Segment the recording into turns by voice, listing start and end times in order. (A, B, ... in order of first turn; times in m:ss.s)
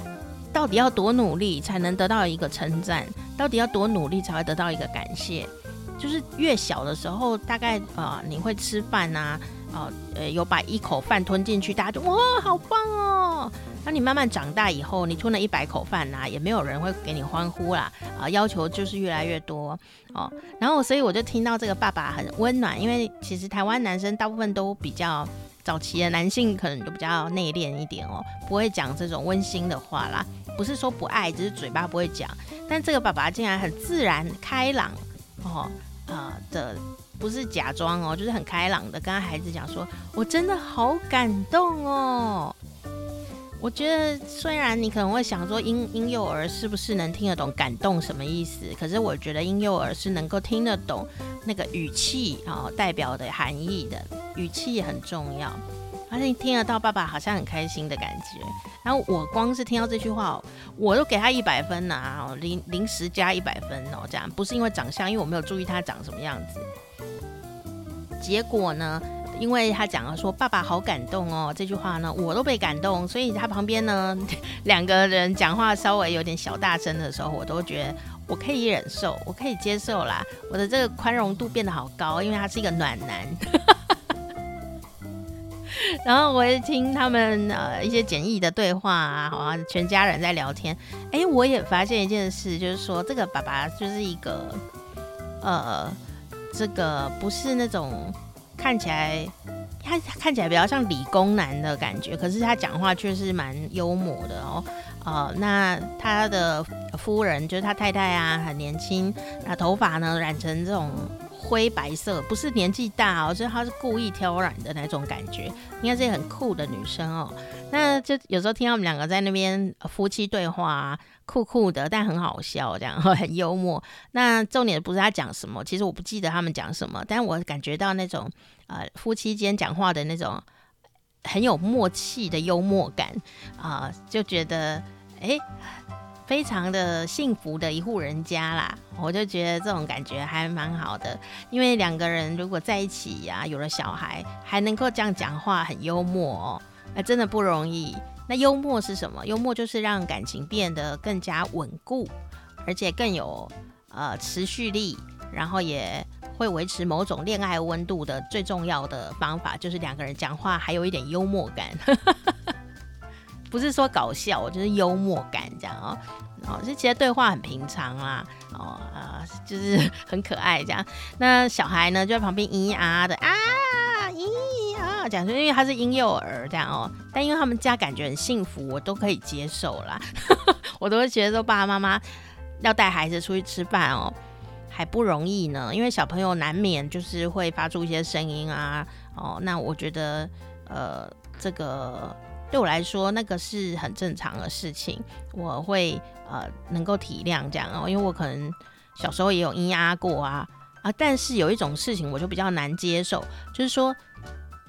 0:00.5-0:42.6 A
0:43.6-1:06.6 A
1:08.2-1:23.7 A
1:25.7-1:34.6 A
1:35.4-1:36.0 A
1:36.5-2:10.4 A
2:11.2-2:15.7 A
2:16.3-2:32.1 A
2:32.6-2:42.2 A
2:43.5-3:02.0 A
3:02.6-3:04.1 A
3:04.7-3:24.0 A